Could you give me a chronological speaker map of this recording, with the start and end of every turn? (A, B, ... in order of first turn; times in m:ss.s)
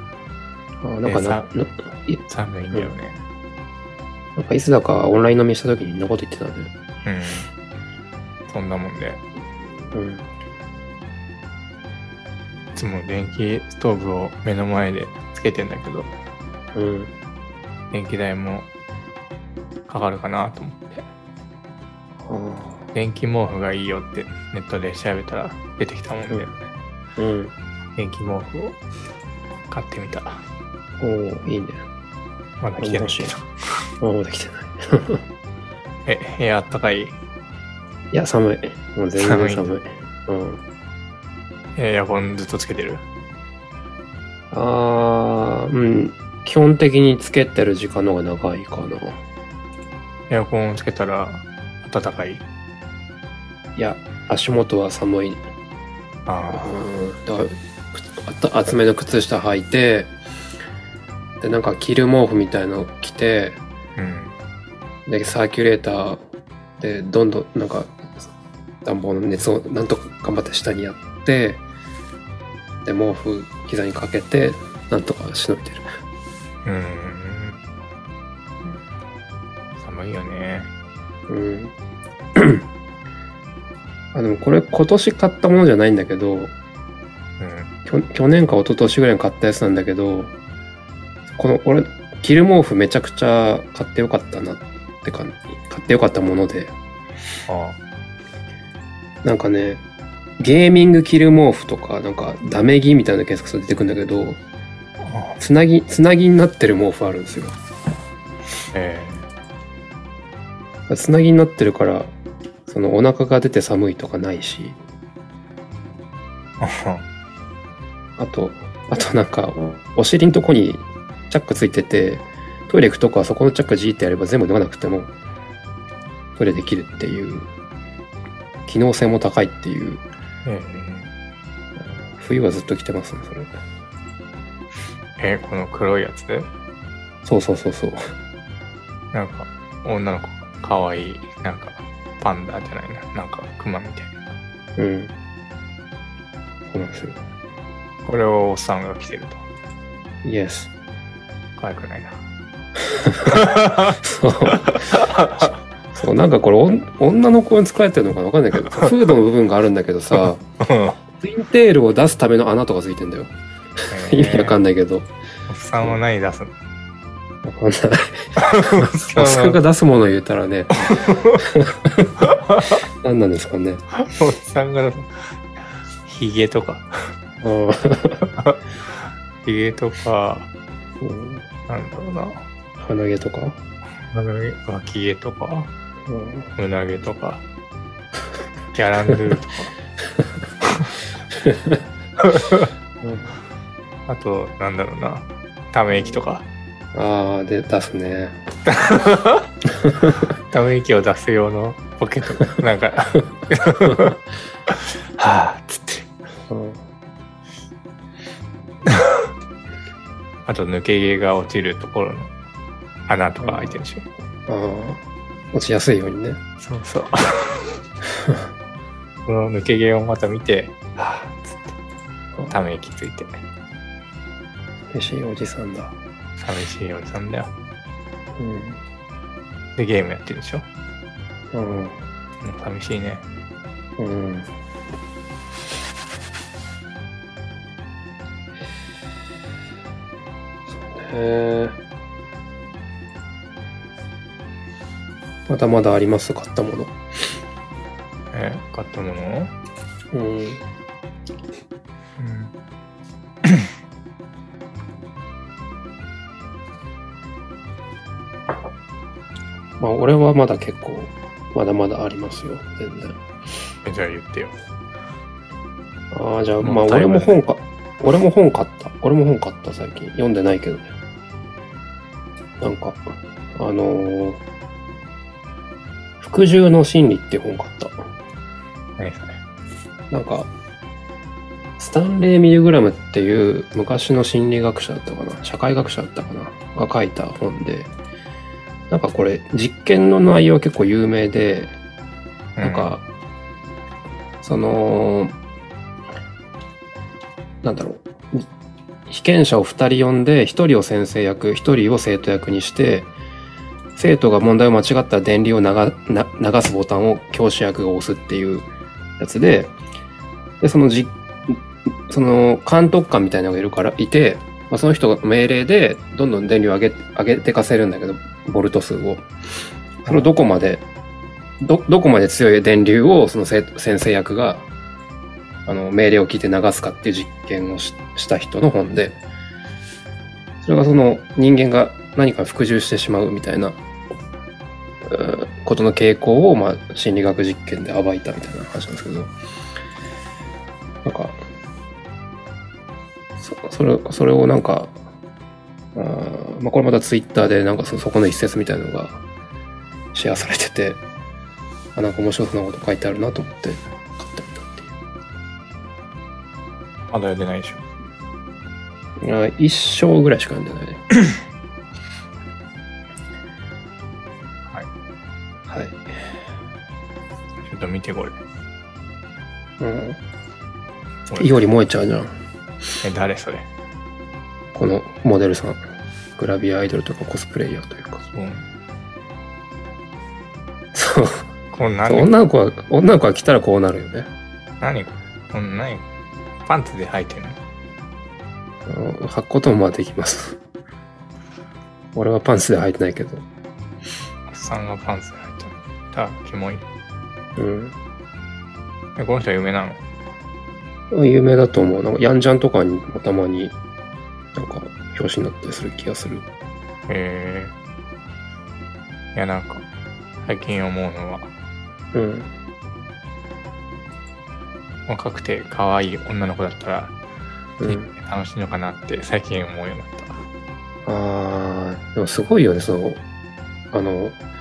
0:00.8-0:02.2 A
0:01.0-0:01.5 B
0:02.3-0:03.2 B
0:04.4-0:06.7 A
0:07.0-0:07.5 B
0:08.5-0:09.2 B
0:09.9-0:10.3 A
0:12.8-0:16.1 B
0:16.7-0:17.1 A
0:17.9-0:18.7 B
0:19.9-0:21.0 B
0:22.3-0:22.8 A
0:22.9-0:26.6 B
0:27.2-0:27.5 A
0:28.0-0:28.8 B
0:29.7-0:30.4 B
0:31.0-0:31.8 A
0:32.6-0:33.5 B
0:32.8-0:33.3 A
0:34.0-0:35.2 A
0:36.1-0:37.2 B
0:38.1-0:40.6 A
0:39.2-0:39.7 B
0:41.8-0:43.0 B
0:44.5-0:49.2 A
0:50.3-0:52.4 B
0:53.8-0:55.4 A
0:56.3-0:56.8 B
0:56.5-1:00.1 A
1:01.4-1:03.6 A
1:04.0-1:04.3 B
1:05.1-1:06.2 A
1:06.8-1:08.0 A
1:08.8-1:11.6 A
1:12.8-1:15.9 A
1:16.6-1:17.6 B
1:19.8-1:20.7 B
1:21.3-1:21.7 A
1:22.4-1:22.7 A
1:24.1-1:26.5 A
1:27.4-1:27.7 B
1:27.9-1:30.3 A
1:31.4-1:36.7 A
1:37.5-1:37.8 B
1:39.2-1:39.8 A
1:40.4-1:44.4 A
1:45.0-1:45.4 B
1:45.4-1:47.6 A
1:48.7-1:49.3 B
1:50.9-1:52.1 A
1:52.7-1:54.8 A
1:56.6-1:57.0 B
1:58.2-2:05.1 A
2:06.4-2:07.5 A
2:08.7-2:10.0 A
2:10.5-2:11.1 B
2:12.1-2:13.5 A
2:15.2-2:16.5 B
2:17.2-2:18.0 A
2:19.1-2:24.4 B
2:24.8-2:25.1 A
2:26.7-2:27.2 A
2:28.0-2:29.4 B
2:30.2-2:30.7 A
2:31.6-2:32.2 B
2:32.9-2:33.5 A
2:33.2-2:34.0 B
2:34.0-2:40.4 A
2:34.6-2:35.6 B
2:40.6-2:41.0 B
2:41.2-2:43.3 A
2:43.9-2:44.6 B
2:43.9-2:45.1 A
2:45.5-2:46.5 B
2:47.4-2:52.1 A
2:48.4-2:49.6 B
2:50.9-2:51.4 B
2:52.2-2:52.8 B
2:53.0-2:53.8 A
2:54.0-2:55.2 B
2:56.1-2:56.9 B
2:57.4-2:58.2 A
2:58.3-2:58.6 B
2:59.4-3:00.5 B
3:01.0-3:01.5 A
3:01.7-3:02.5 B
3:02.8-3:03.6 A
3:04.1-3:05.7 B
3:06.1-3:06.5 A
3:06.6-3:07.4 B
3:08.7-3:09.7 B
3:10.6-3:11.0 B
3:11.4-3:11.8 A
3:12.2-3:12.7 B
3:13.0-3:13.4 A
3:14.1-3:16.5 B
3:16.9-3:18.3 A
3:18.7-3:19.5 B
3:19.8-3:20.2 A
3:20.2-3:26.1 B
3:26.5-3:26.8 A
3:28.9-3:29.3 B
3:30.5-3:32.3 B
3:33.1-3:34.0 B
3:33.4-3:33.8 A
3:34.5-3:36.4 A
3:36.6-3:37.8 B
3:38.2-3:38.4 A
3:39.3-3:41.8 B
3:42.5-3:43.4 B
3:44.9-3:46.0 A
3:46.4-3:47.5 B
3:48.4-3:48.8 A
3:49.8-3:50.7 B
3:51.5-3:52.0 A
3:52.4-3:53.2 B
3:54.0-3:54.5 A
4:00.7-4:01.8 A
4:05.5-4:07.0 A
4:08.3-4:09.5 B
4:10.1-4:10.6 A
4:12.2-4:12.5 B
4:19.8-4:23.2 A
4:23.8-4:24.6 B
4:26.1-4:30.9 A
4:26.6-4:27.4 B
4:32.6-4:34.4 A
4:36.2-4:38.0 A
4:39.0-4:39.4 B
4:40.1-4:40.5 A
4:41.8-4:47.9 A
4:48.9-4:51.7 A
4:52.6-4:53.0 B
4:52.6-4:53.1 A
4:54.4-4:55.4 A
4:57.6-4:58.5 A
4:59.1-5:03.1 A
5:04.0-5:09.8 A
5:10.6-5:19.3 A
5:20.1-5:20.8 A
5:21.6-5:24.7 A
5:25.7-5:29.2 A
5:30.6-5:33.8 A
5:35.1-5:39.3 A
5:41.0-5:41.4 A
5:43.4-5:44.9 A
5:46.0-5:49.2 A
5:50.1-5:51.0 A
5:52.0-5:54.9 A
5:57.1-5:57.8 B
5:59.2-6:01.0 A
6:05.7-6:06.0 A
6:07.6-6:08.4 B
6:09.8-6:10.2 A
6:11.3-6:11.6 B
6:11.4-6:12.3 A
6:13.0-6:13.7 B
6:14.8-6:15.8 A
6:16.4-6:18.2 A
6:18.3-6:18.7 B
6:20.9-6:21.5 A
6:21.7-6:22.3 B
6:22.1-6:24.3 A
6:24.8-6:26.1 B
6:26.7-6:27.6 B
6:28.9-6:30.6 A
6:32.2-6:33.5 A
6:34.5-6:36.8 B
6:37.6-6:38.0 A
6:39.2-6:40.0 B
6:41.1-6:43.8 A
6:44.5-6:46.5 A
6:47.1-6:47.7 B
6:49.4-6:49.9 B
6:50.4-6:51.5 B
6:52.1-6:52.5 A
6:55.1-6:57.2 B
6:57.8-6:58.1 A
6:57.8-7:00.4 B
7:01.1-7:03.2 A
7:03.9-7:04.4 A